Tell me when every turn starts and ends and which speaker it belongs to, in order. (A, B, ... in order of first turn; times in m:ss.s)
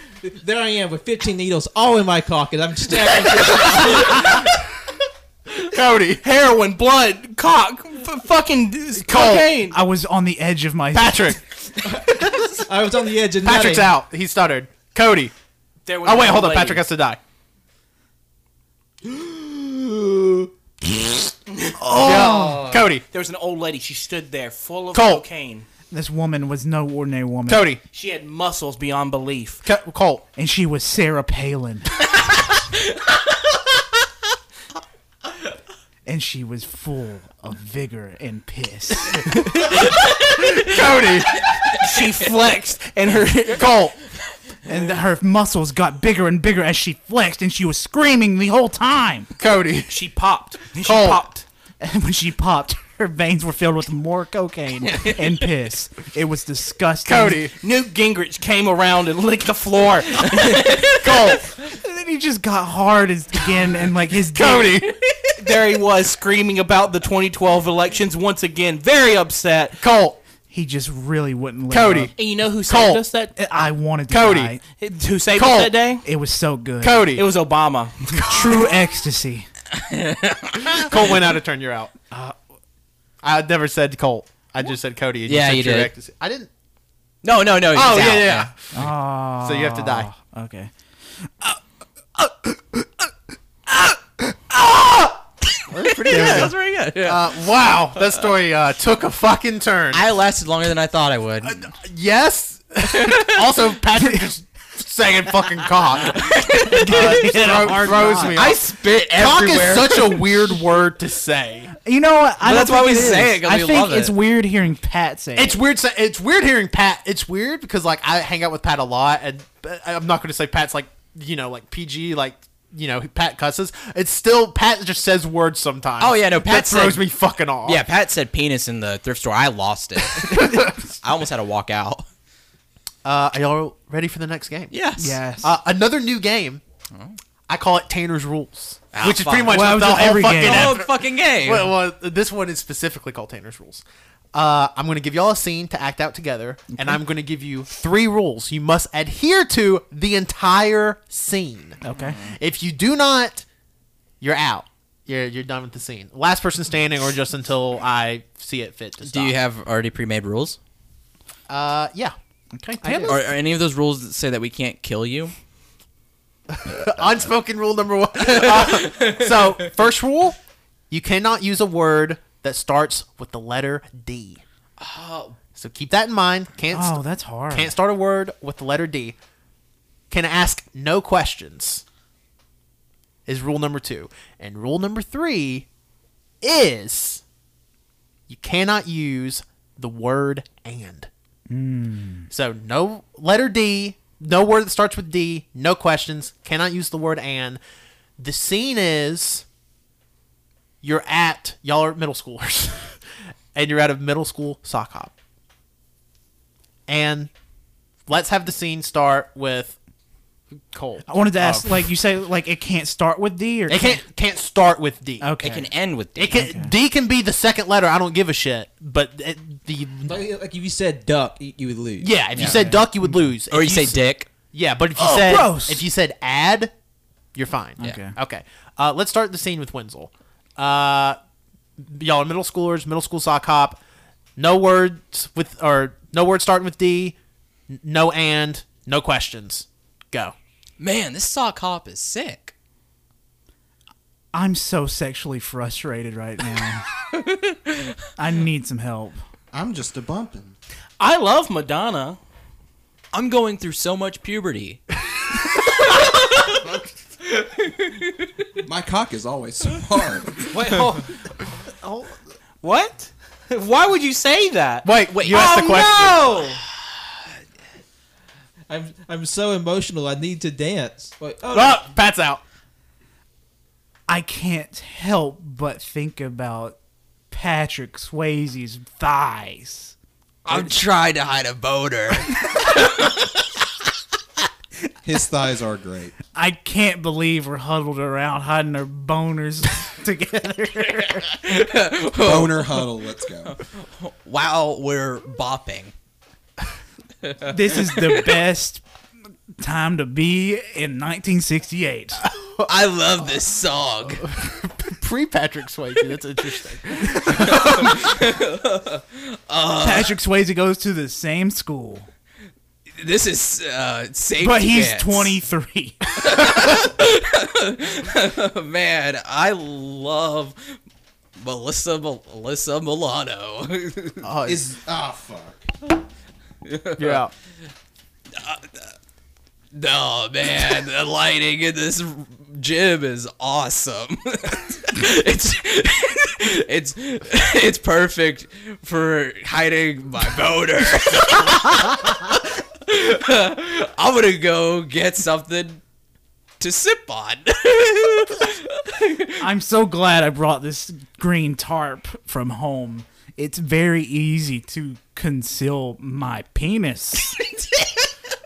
0:00.2-0:04.5 A
0:03.2-0:04.5 B
0:05.6-0:06.2 B
0:06.2-0:09.8 C
0:09.0-0:09.5 B
0:09.7-0:11.3 D
0:10.9-0:11.4 B
0:11.9-0:13.9 A
0:12.1-0:12.6 B
0:13.4-0:15.3 B
0:15.8-0:16.8 C
0:16.0-0:17.2 B
0:19.1-0:20.3 A
0:21.5-0:21.8 C
0:21.9-0:23.0 B
0:22.0-0:22.3 D
0:22.0-0:22.4 E
0:23.1-0:25.7 C
0:24.9-0:25.2 B
0:25.9-0:27.7 D
0:27.5-0:27.8 B
0:27.9-0:29.6 C
0:29.6-0:30.2 B
0:30.4-0:31.9 D
0:36.0-0:39.3 D
0:39.3-0:40.0 C
0:40.3-0:41.4 B
0:41.7-0:43.7 C
0:43.5-0:44.0 B
0:44.6-0:49.3 D
0:49.4-0:50.0 B
0:49.9-0:51.4 C
0:50.8-0:51.2 B
0:51.8-0:57.4 D
0:54.9-0:55.2 E
0:57.0-0:57.5 B
0:57.5-1:01.4 C
1:01.0-1:01.4 B
1:01.6-1:04.8 D
1:04.3-1:05.5 B
1:05.4-1:09.8 C
1:09.8-1:10.2 B
1:10.5-1:12.1 D
1:11.7-1:12.1 B
1:12.2-1:13.3 C
1:12.6-1:13.0 B
1:13.4-1:14.6 D
1:14.1-1:14.6 B
1:14.7-1:16.0 C
1:15.3-1:15.8 B
1:16.0-1:17.1 D
1:16.8-1:17.3 B
1:17.1-1:18.2 C
1:18.2-1:18.6 B
1:18.2-1:19.5 D
1:19.7-1:21.1 E
1:20.7-1:21.9 B
1:23.2-1:26.5 B
1:25.3-1:25.9 E
1:27.2-1:28.5 E
1:27.7-1:30.1 B
1:28.7-1:30.7 D
1:34.5-1:34.9 E
1:35.7-1:40.0 B
1:35.7-1:37.4 E
1:36.1-1:36.5 D
1:38.0-1:38.2 E
1:39.9-1:41.7 E
1:41.4-1:51.7 B
1:42.8-1:43.5 E
1:46.0-1:50.2 E
1:46.7-1:48.4 D
1:51.8-1:55.6 D
1:52.4-1:54.1 E
1:55.4-2:07.8 B
2:06.0-2:07.0 E
2:07.6-2:12.0 E
2:10.1-2:10.7 B
2:13.0-2:14.7 B
2:14.7-2:15.2 E
2:15.0-2:15.5 D
2:15.4-2:16.6 B
2:17.5-2:33.4 B
2:18.9-2:21.7 E
2:19.5-2:20.8 D
2:31.8-2:32.2 D
2:34.2-2:39.4 B
2:39.0-2:40.6 E
2:41.5-2:42.1 B
2:42.5-2:43.1 D
2:42.8-2:43.2 B
2:43.0-2:45.3 E
2:46.5-2:50.4 B
2:48.2-2:49.3 E
2:50.9-2:54.4 B
2:54.8-2:55.4 E
2:55.5-2:59.2 B
2:56.7-2:57.7 D
3:00.1-3:01.8 B
3:03.2-3:05.7 B
3:06.4-3:07.2 B
3:08.3-3:11.1 B
3:11.5-3:12.3 D
3:12.3-3:17.6 B
3:18.2-3:19.4 B
3:20.8-3:23.0 B
3:23.5-3:25.1 B
3:26.9-3:27.3 B
3:28.1-3:29.8 B
3:30.7-3:31.9 B
3:31.1-3:34.0 D
3:33.7-3:35.4 B
3:35.2-3:35.7 D
3:35.4-3:36.4 E
3:36.2-3:40.2 B
3:36.3-3:36.7 D
3:40.0-3:42.2 A
3:42.0-3:46.7 B
3:42.3-3:42.6 E
3:42.4-3:43.2 D
3:43.5-3:44.3 E
3:45.0-3:45.8 D
3:47.3-3:51.2 B
3:47.8-3:48.1 D
3:51.8-3:53.8 B
3:54.4-3:57.2 B
3:57.7-4:00.3 B
4:00.8-4:02.5 E
4:04.3-4:06.8 D
4:07.1-4:07.9 E
4:08.2-4:09.2 D
4:09.5-4:10.6 F
4:11.0-4:12.2 C
4:13.1-4:14.8 E
4:15.4-4:16.6 E
4:18.6-4:20.5 F
4:20.5-4:21.1 C
4:21.8-4:22.1 C
4:22.6-4:26.6 C
4:24.8-4:26.3 B
4:28.7-4:31.8 A
4:31.5-4:32.4 B
4:34.1-4:36.8 D
4:37.3-4:39.9 D
4:40.4-4:43.4 E
4:45.0-4:46.1 F
4:46.3-4:51.2 D
4:51.2-4:55.9 E
4:52.2-4:53.6 F
4:57.2-4:58.4 E
4:57.4-4:58.8 D
4:59.6-5:02.2 D
5:02.2-5:02.7 B
5:02.6-5:04.3 E
5:04.1-5:08.2 B
5:07.2-5:10.1 E
5:09.8-5:12.1 D
5:13.0-5:15.4 E
5:14.4-5:16.0 D
5:16.2-5:20.7 E
5:21.4-5:24.3 E
5:24.2-5:24.8 B
5:24.4-5:25.7 F
5:26.6-5:27.2 E
5:27.0-5:27.3 B
5:28.3-5:28.9 E
5:29.7-5:45.8 E
5:46.6-5:49.4 E
5:49.4-5:57.4 D
5:57.4-5:58.1 E